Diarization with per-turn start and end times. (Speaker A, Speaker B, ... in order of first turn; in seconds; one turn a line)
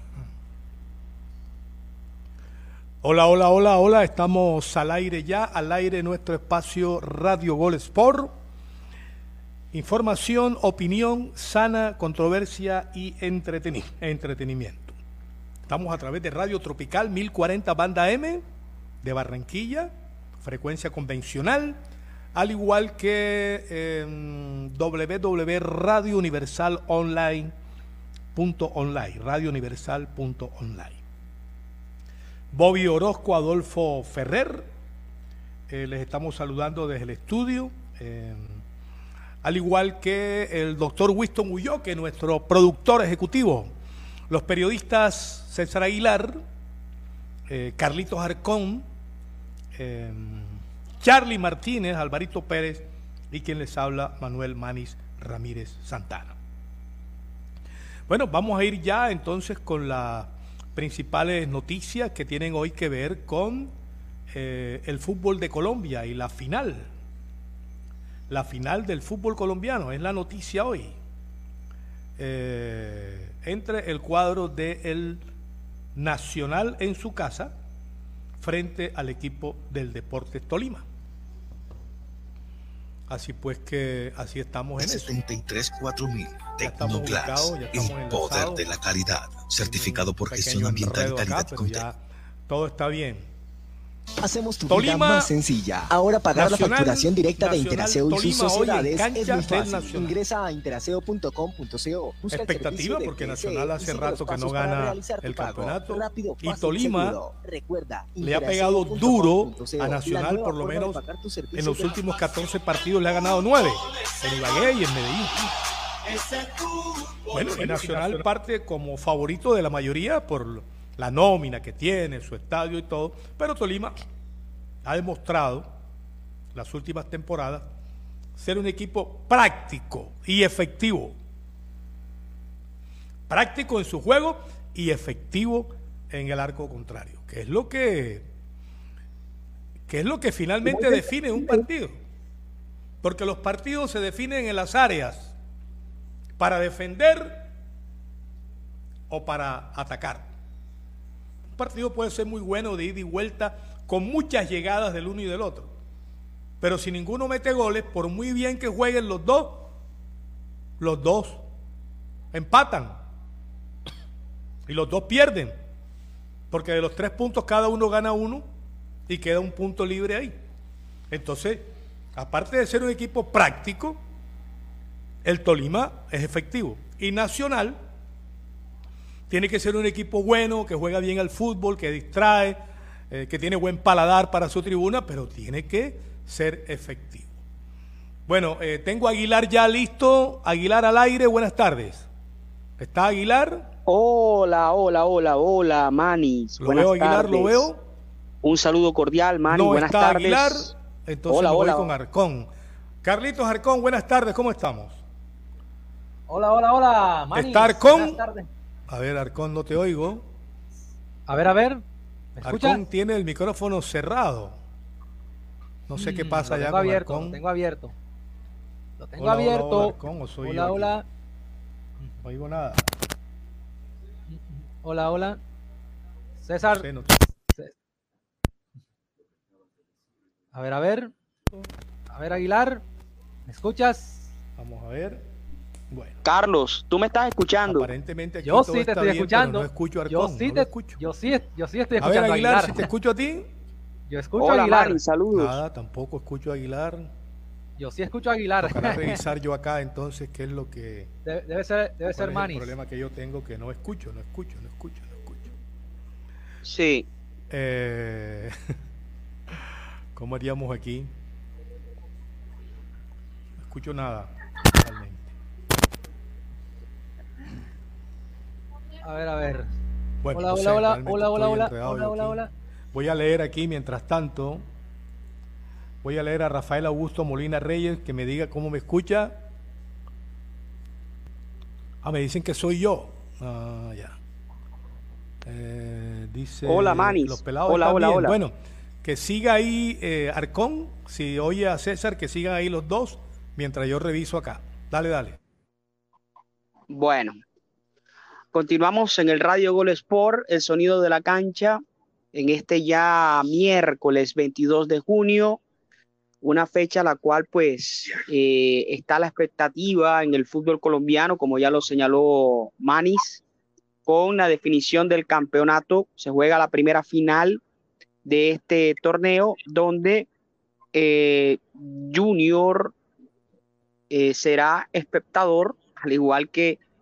Speaker A: 3.0-8.3
Speaker A: 9.7-14.9
Speaker A: 15.7-18.4
Speaker A: 19.0-21.8
Speaker A: 22.4-27.5
Speaker A: 28.4-31.0
Speaker A: 32.5-34.7
Speaker A: 35.7-38.6
Speaker A: 39.4-43.7
Speaker A: 44.3-46.4
Speaker A: 47.5-48.9
Speaker A: 49.8-56.4
Speaker A: 58.1-63.7
Speaker A: 64.3-66.9
Speaker A: 68.3-71.0
Speaker A: 72.2-75.2
Speaker A: 76.0-77.5
Speaker A: 78.4-80.8
Speaker A: 83.1-85.2
Speaker B: 84.8-91.8
Speaker A: 86.6-88.7
Speaker A: 89.6-93.3
Speaker C: 94.2-112.2
Speaker A: 94.7-95.3
Speaker A: 96.3-100.2
Speaker A: 102.3-107.2
Speaker A: 108.2-111.0
Speaker A: 111.5-115.5
Speaker A: 117.3-123.9
Speaker A: 124.8-125.7
Speaker A: 126.5-127.7
Speaker A: 128.4-131.2
Speaker A: 133.3-138.3
Speaker A: 139.9-142.0
Speaker A: 143.0-145.3
Speaker A: 146.4-147.5
Speaker A: 149.1-150.3
Speaker A: 151.6-155.7
Speaker A: 156.6-159.7
Speaker A: 160.8-161.4
Speaker A: 162.3-163.0
Speaker A: 164.7-165.6
Speaker A: 166.5-168.4
Speaker A: 169.1-170.3
Speaker A: 171.1-174.0
Speaker A: 175.2-177.8
Speaker A: 179.3-182.6
Speaker A: 183.1-187.4
Speaker A: 188.3-192.1
Speaker A: 192.8-193.7
Speaker D: 193.9-197.7
Speaker A: 196.6-197.8
Speaker D: 198.4-200.7
Speaker A: 199.5-202.5
Speaker D: 201.3-201.9
Speaker A: 203.0-205.0
Speaker E: 206.3-208.5
Speaker A: 207.3-208.2
Speaker A: 208.9-210.3
Speaker E: 211.3-211.8
Speaker E: 212.4-212.8
Speaker A: 212.4-214.6
Speaker A: 215.9-217.4
Speaker E: 216.0-217.9
Speaker E: 219.0-221.1
Speaker A: 219.2-221.0
Speaker A: 222.2-222.9
Speaker E: 224.3-225.4
Speaker E: 226.4-226.9
Speaker A: 226.6-227.2
Speaker E: 230.5-231.1
Speaker E: 232.1-232.8
Speaker E: 233.5-234.3
Speaker A: 234.6-235.2
Speaker A: 235.9-236.2
Speaker D: 236.2-237.9
Speaker A: 237.6-241.0
Speaker E: 238.4-242.9
Speaker A: 242.0-243.5
Speaker E: 244.1-245.0
Speaker D: 244.4-245.6
Speaker A: 245.3-247.1
Speaker E: 247.8-249.2
Speaker A: 248.6-251.1
Speaker E: 251.3-252.7
Speaker A: 252.2-255.5
Speaker D: 256.6-257.1
Speaker A: 257.5-258.5
Speaker A: 260.1-261.1
Speaker A: 263.7-265.3
Speaker E: 269.0-269.7
Speaker A: 270.2-272.4
Speaker E: 270.3-272.5
Speaker A: 272.9-274.7
Speaker A: 276.0-279.4
Speaker A: 282.0-284.2
Speaker A: 285.4-295.4
Speaker D: 286.7-288.3
Speaker D: 296.9-297.4
Speaker D: 298.5-301.8
Speaker D: 302.3-305.6
Speaker D: 306.4-313.4
Speaker D: 314.1-317.6
Speaker D: 318.2-320.3
Speaker D: 320.9-322.9
Speaker D: 324.1-326.8